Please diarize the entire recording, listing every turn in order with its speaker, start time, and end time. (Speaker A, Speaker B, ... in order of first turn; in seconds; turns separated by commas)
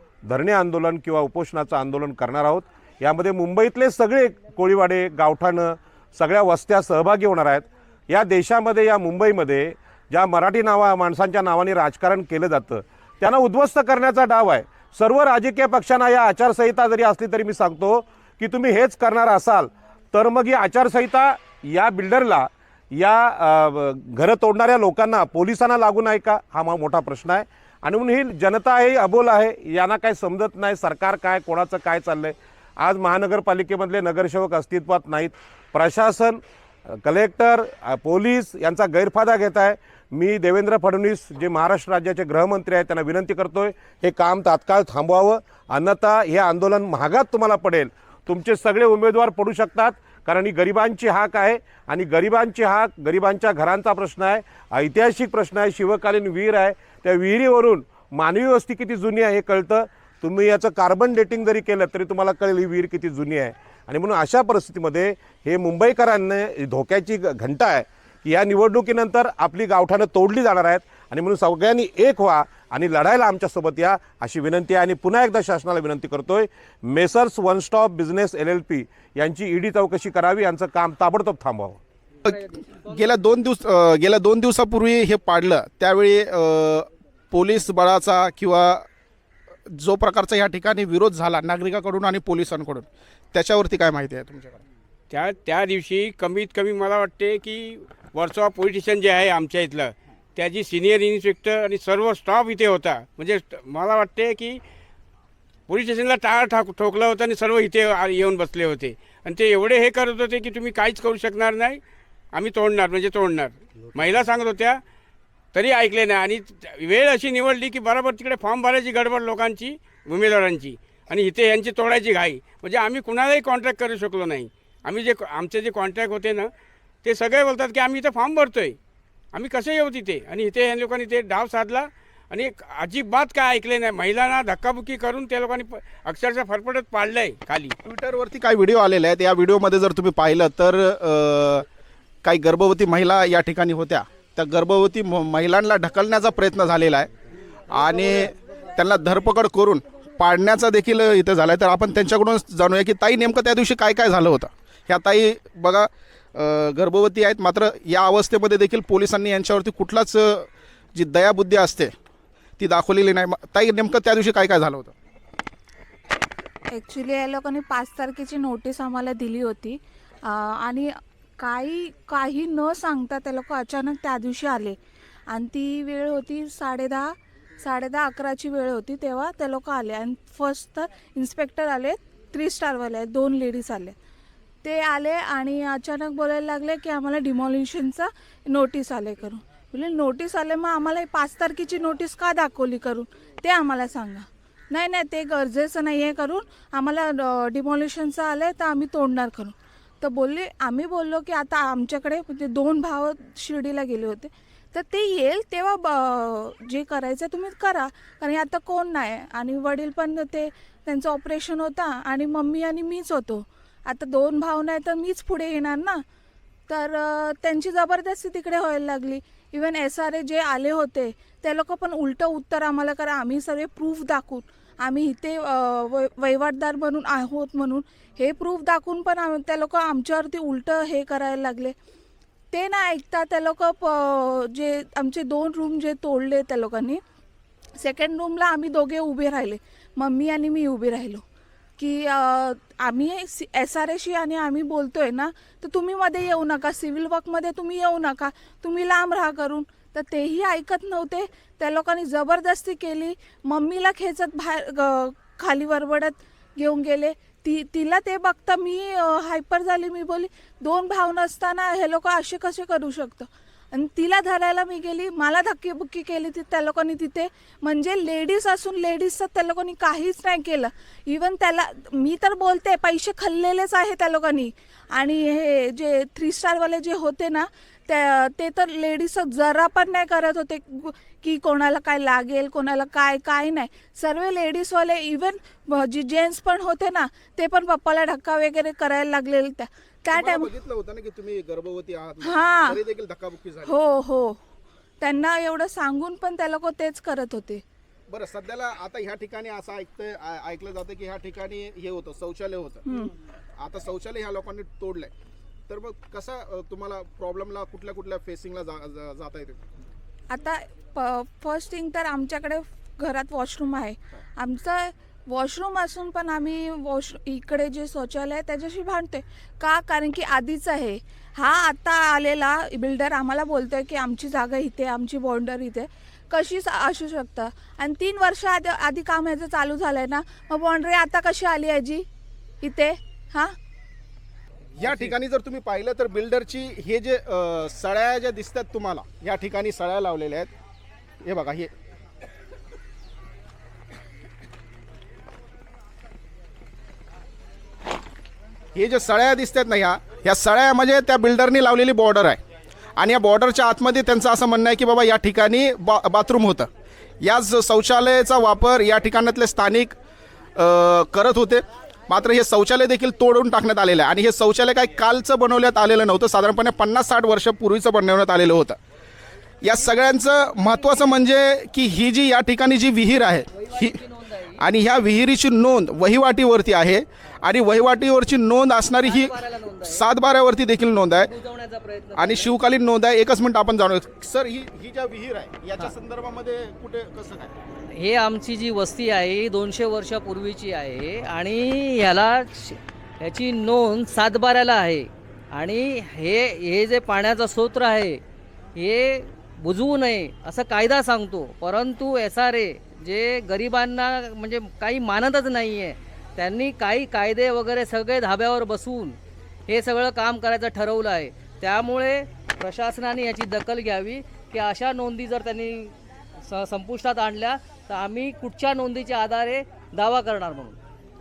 Speaker A: 0.2-81.8, Speaker B: 82.2-88.9, Speaker C: 82.3-83.0, Speaker B: 89.7-94.6, Speaker D: 95.1-104.6, Speaker D: 105.7-111.8, Speaker D: 112.3-114.8, Speaker D: 115.5-126.5, Speaker D: 127.0-128.8, Speaker D: 129.3-137.8, Speaker B: 137.8-141.7, Speaker B: 142.2-147.1, Speaker B: 147.7-161.9, Speaker B: 162.6-164.9, Speaker E: 166.7-174.8, Speaker E: 175.3-183.9, Speaker E: 184.6-216.0, Speaker E: 216.7-231.8, Speaker E: 232.5-237.0, Speaker E: 237.8-241.2, Speaker E: 241.8-290.5, Speaker B: 290.1-293.8, Speaker E: 292.2-292.8, Speaker E: 293.7-294.4, Speaker E: 295.0-297.6, Speaker B: 298.1-302.9, Speaker E: 302.9-303.1, Speaker B: 303.6-305.1, Speaker B: 305.7-309.7, Speaker E: 310.3-332.1, Speaker E: 332.6-333.6, Speaker B: 334.8-340.5, Speaker B: 341.2-341.7, Speaker B: 348.8-352.4, Speaker B: 353.0-356.7, Speaker B: 357.2-360.0, Speaker B: 360.6-368.8, Speaker B: 369.6-374.0, Speaker C: 373.5-374.6, Speaker B: 374.6-381.3, Speaker C: 379.0-380.0, Speaker C: 381.2-382.5, Speaker B: 382.2-387.5, Speaker C: 387.9-398.2, Speaker C: 398.8-409.2, Speaker C: 409.7-420.8